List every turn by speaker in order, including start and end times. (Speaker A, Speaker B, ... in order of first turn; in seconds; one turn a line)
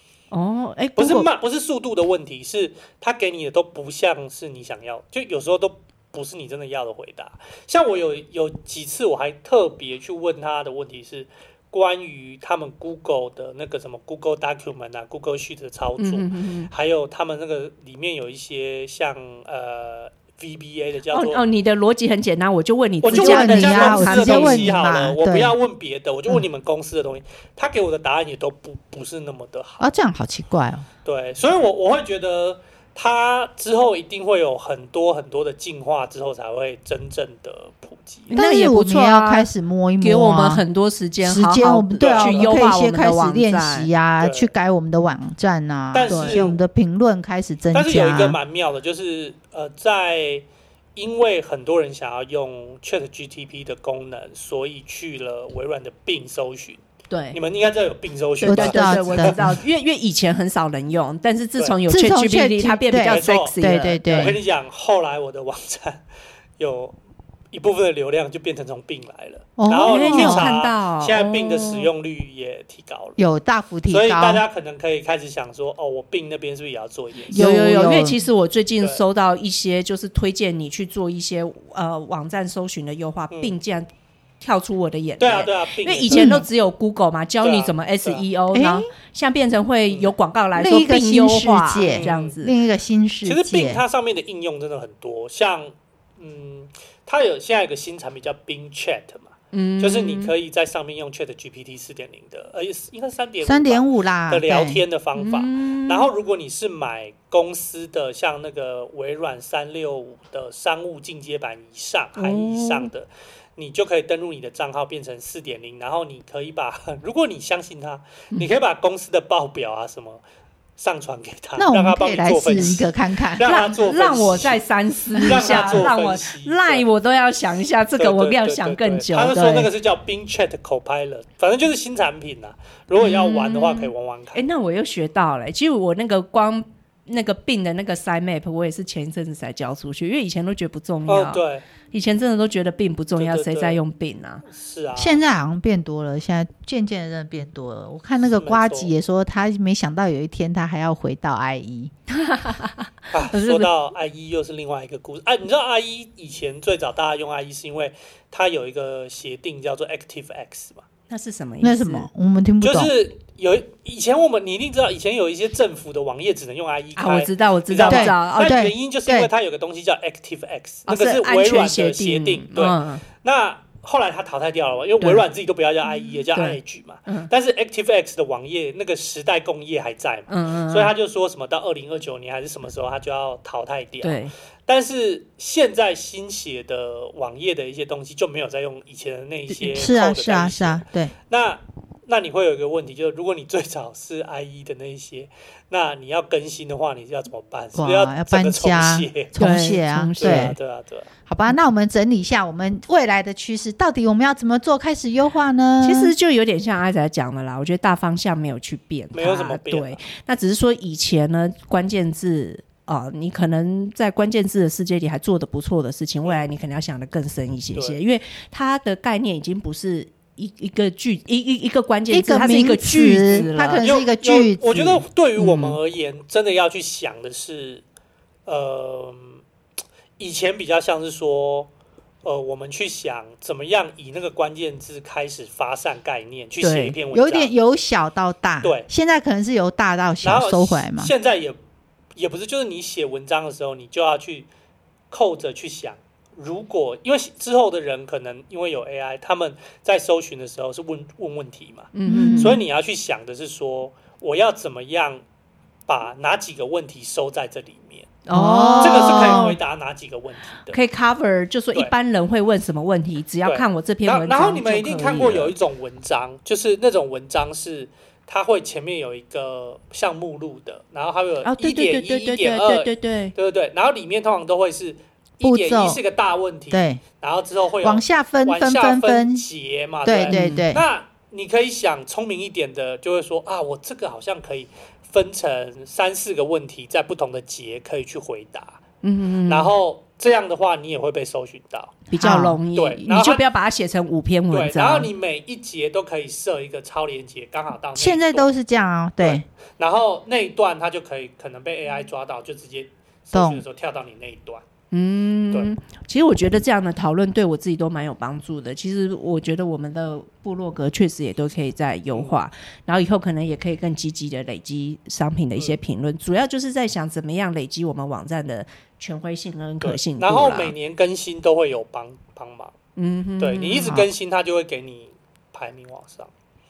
Speaker A: 0.3-1.3
Speaker B: 1.0-21.4
Speaker A: 16.0-16.7
Speaker A: 21.1-24.8
Speaker B: 23.0-29.9
Speaker C: 23.1-25.6
Speaker C: 29.8-30.9
Speaker B: 31.1-38.4
Speaker A: 38.3-43.9
Speaker C: 38.3-40.6
Speaker C: 41.2-48.4
Speaker B: 42.0-42.6
Speaker B: 44.2-44.5
Speaker B: 45.9-46.6
Speaker A: 46.0-46.5
Speaker B: 47.7-56.8
Speaker A: 57.1-57.4
Speaker B: 57.3-59.4
Speaker A: 58.4-64.4
Speaker C: 58.4-59.6
Speaker C: 61.9-64.4
Speaker B: 63.1-63.6
Speaker B: 64.1-66.0
Speaker B: 66.6-67.0
Speaker B: 67.5-73.2
Speaker C: 69.6-70.5
Speaker A: 69.8-71.9
Speaker C: 73.2-74.4
Speaker B: 73.9-77.4
Speaker C: 77.3-78.2
Speaker A: 77.3-83.9
Speaker A: 84.4-92.5
Speaker B: 85.2-86.4
Speaker C: 86.1-86.5
Speaker B: 87.4-88.2
Speaker C: 88.5-88.9
Speaker C: 90.5-93.8
Speaker B: 91.8-92.4
Speaker B: 93.2-120.2
Speaker A: 99.5-100.3
Speaker C: 103.4-104.8
Speaker A: 105.2-106.1
Speaker A: 112.2-112.9
Speaker B: 120.8-126.9
Speaker C: 121.6-123.5
Speaker A: 123.4-129.7
Speaker C: 125.2-125.9
Speaker B: 128.0-134.4
Speaker A: 133.0-144.4
Speaker B: 141.1-141.6
Speaker B: 143.2-143.8
Speaker B: 144.5-145.2
Speaker C: 145.0-151.9
Speaker B: 148.2-148.9
Speaker A: 152.1-153.7
Speaker B: 153.1-160.8
Speaker A: 161.1-162.1
Speaker C: 161.6-162.9
Speaker B: 162.6-199.3
Speaker A: 167.0-168.6
Speaker C: 167.9-169.3
Speaker A: 170.9-173.1
Speaker A: 176.3-177.3
Speaker A: 180.3-180.9
Speaker A: 184.0-184.3
Speaker C: 189.6-191.1
Speaker C: 197.8-200.6
Speaker A: 199.4-200.6
Speaker B: 200.2-201.1
Speaker C: 201.3-206.1
Speaker A: 205.8-223.9
Speaker B: 209.1-210.0
Speaker B: 216.2-216.5
Speaker B: 217.8-218.0
Speaker C: 222.1-225.0
Speaker B: 223.4-227.8
Speaker A: 225.4-225.8
Speaker B: 228.5-229.4
Speaker B: 230.2-231.7
Speaker B: 232.2-237.5
Speaker A: 236.6-237.0
Speaker C: 237.1-241.1
Speaker B: 238.6-238.9
Speaker B: 240.2-241.6
Speaker B: 242.1-244.5
Speaker B: 245.1-255.2
Speaker A: 251.9-252.6
Speaker C: 252.1-252.6
Speaker B: 255.9-258.1
Speaker A: 258.3-259.6
Speaker C: 258.3-259.5
Speaker B: 258.8-260.8
Speaker A: 260.7-265.6
Speaker B: 263.4-288.8
Speaker A: 271.4-273.4
Speaker C: 275.4-276.0
Speaker C: 276.7-277.0
Speaker C: 277.8-279.5
Speaker C: 280.1-280.8
Speaker A: 280.3-280.7
Speaker A: 289.0-289.7
Speaker B: 289.5-292.0
Speaker A: 292.1-295.1
Speaker C: 292.2-292.6
Speaker B: 292.7-293.4
Speaker B: 294.5-298.5
Speaker C: 298.0-299.4
Speaker B: 299.2-304.6
Speaker C: 303.3-303.6
Speaker A: 304.9-320.7
Speaker B: 319.8-322.7
Speaker A: 323.0-324.1
Speaker B: 323.4-326.3